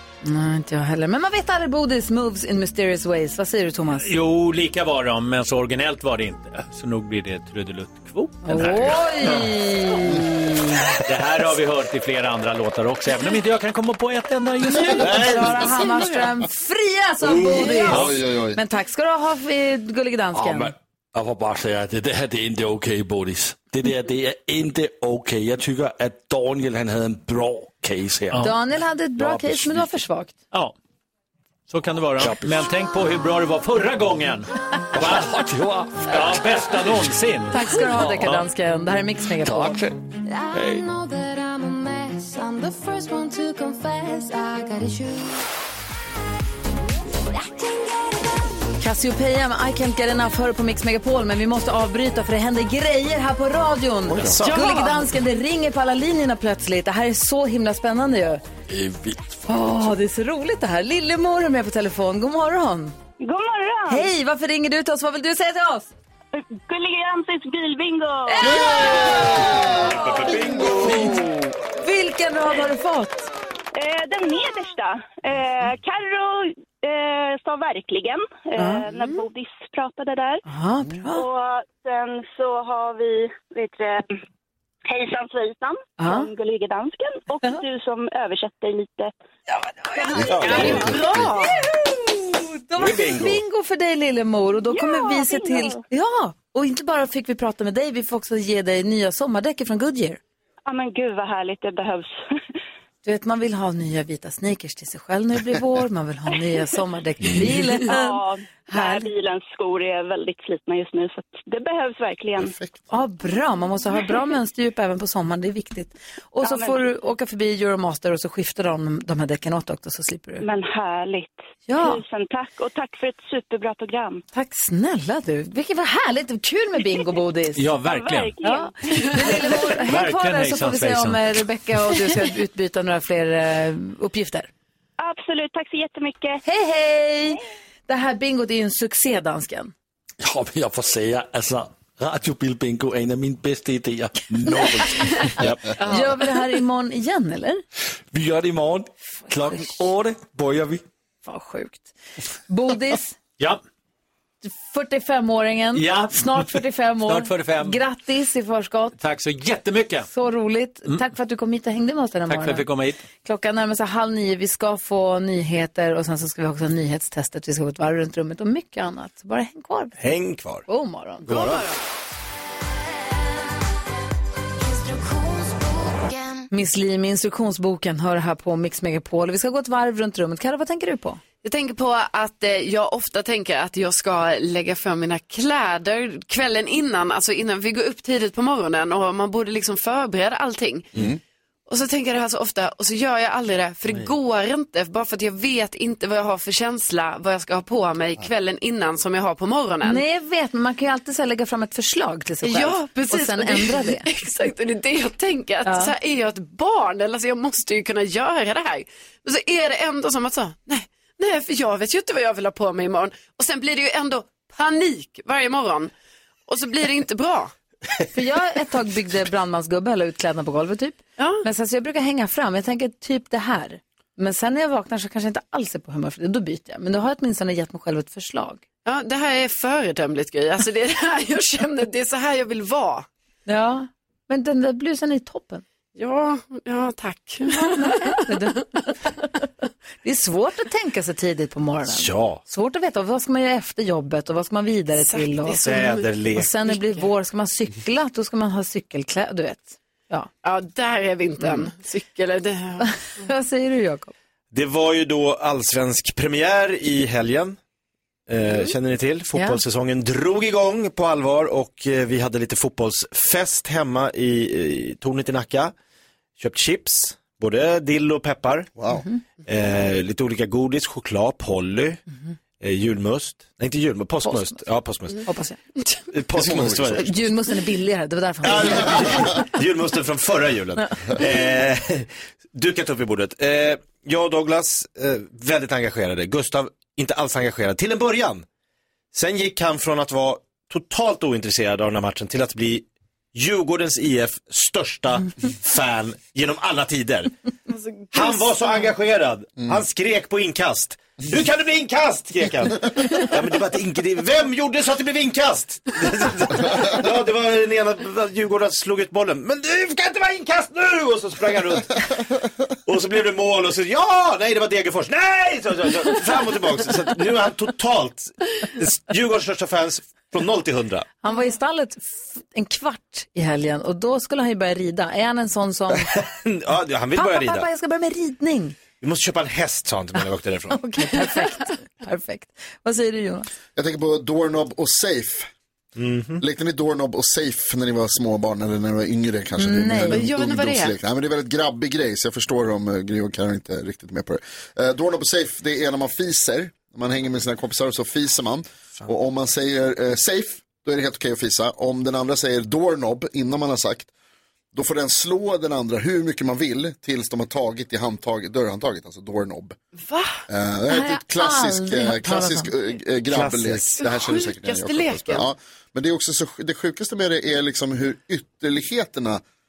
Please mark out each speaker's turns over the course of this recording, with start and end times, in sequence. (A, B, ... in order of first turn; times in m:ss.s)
0:00.2-0:04.1 A
0:04.0-0:09.5 B
0:08.4-0:10.9 A
0:11.0-0:15.2 B
0:14.7-0:20.7 A
0:15.1-0:15.5 C
0:17.2-0:17.6 C
0:17.9-0:18.6 D
0:20.3-0:28.5 E
0:28.4-0:30.4 A
0:29.2-0:30.0 E
0:31.7-0:35.2 B
0:32.2-0:32.7 E
0:34.9-0:36.4 E
0:36.0-0:37.6 B
0:37.5-0:39.8 A
0:37.8-0:38.3 E
0:39.4-0:40.9 E
0:40.3-0:45.4 F
0:47.4-0:48.2 F
0:48.8-0:58.4 A
0:54.1-0:54.9 C
0:54.1-0:54.4 D
0:58.7-0:59.4 E
0:59.5-1:03.0 A
1:03.2-1:04.1 G
1:03.9-1:05.9 A
1:06.3-1:08.9 G
1:08.3-1:11.2 A
1:08.8-1:09.6 D
1:09.9-1:11.3 C
1:11.8-1:13.3 A
1:13.7-1:20.4 G
1:18.6-1:18.8 A
1:20.4-1:21.2 A
1:21.1-1:24.2 G
1:24.9-1:29.1 G
1:26.0-1:26.3 A
1:30.0-1:40.2 A
1:30.0-1:30.8 G
1:30.2-1:31.3 D
1:30.3-1:31.0 C
1:30.9-1:31.4 H
1:32.8-1:33.4 E
1:34.7-1:35.8 G
1:40.7-1:42.1 G
1:43.0-1:49.1 A
1:47.8-1:52.5 G
1:52.4-1:52.8 D
1:52.9-2:00.4 A
1:56.4-1:56.9 G
2:00.4-2:04.2 G
2:01.7-2:02.0 A
2:04.3-2:07.7 A
2:07.6-2:08.4 B
2:07.8-2:09.8 G
2:08.4-2:14.5 A
2:09.8-2:11.4 B
2:15.0-2:16.4 G
2:16.4-2:19.7 A
2:20.2-2:25.5 E
2:25.8-2:27.6 A
2:28.1-2:30.8 E
2:31.2-2:32.0 A
2:32.5-2:33.2 A
2:34.4-2:39.0 A
2:35.7-2:36.4 B
2:37.1-2:37.8 B
2:39.0-2:40.1 B
2:40.1-2:42.7 A
2:42.3-2:43.0 B
2:43.2-2:50.0 A
2:50.0-2:50.6 C
2:50.7-2:51.3 A
2:51.2-2:51.6 C
2:51.2-2:51.8 H
2:54.6-2:56.5 F
2:56.5-3:01.2 A
3:01.4-3:10.9 H
3:11.7-3:20.0 H
3:19.8-3:24.1 A
3:22.4-3:35.9 H
3:25.7-3:25.9 A
3:36.5-3:37.5 H
3:38.1-3:48.6 A
3:41.2-3:41.4 H
3:48.9-3:53.1 H
3:53.5-3:55.6 A
3:56.0-3:58.6 H
3:57.5-3:58.7 A
4:00.0-4:05.6 A
4:01.9-4:02.4 C
4:05.0-4:06.1 H
4:05.6-4:06.5 C
4:06.4-4:10.3 A
4:06.7-4:07.0 H
4:10.4-4:12.9 H
4:11.4-4:11.7 A
4:12.8-4:14.1 A
4:14.5-4:17.6 C
4:18.3-4:25.7 C
4:19.4-4:19.6 A
4:26.4-4:28.7 C
4:28.8-4:29.0 D
4:28.9-4:29.2 A
4:29.5-4:32.0 C
4:32.6-4:35.2 C
4:34.2-4:34.6 A
4:35.2-4:35.6 A
4:36.1-4:37.2 C
4:36.4-4:37.1 D
4:37.0-4:39.4 A
4:38.4-4:48.5 C
4:49.1-4:57.3 C
4:57.7-4:58.8 H
4:58.1-5:12.1 C
5:12.9-5:21.1 C
5:21.2-5:26.1 A
5:25.9-5:27.7 C
5:27.2-5:28.8 A
5:29.0-5:30.8 C
5:30.7-5:33.5 A
5:33.8-5:35.5 D
5:36.0-5:36.4 C
5:36.4-5:54.1 D
5:39.6-5:40.2 A
5:40.1-5:41.0 H
5:54.7-5:59.8 D
6:00.0-6:00.4 H
6:00.5-6:09.4 D
6:00.9-6:02.7 A
6:03.3-6:04.0 C
6:04.0-6:05.5 H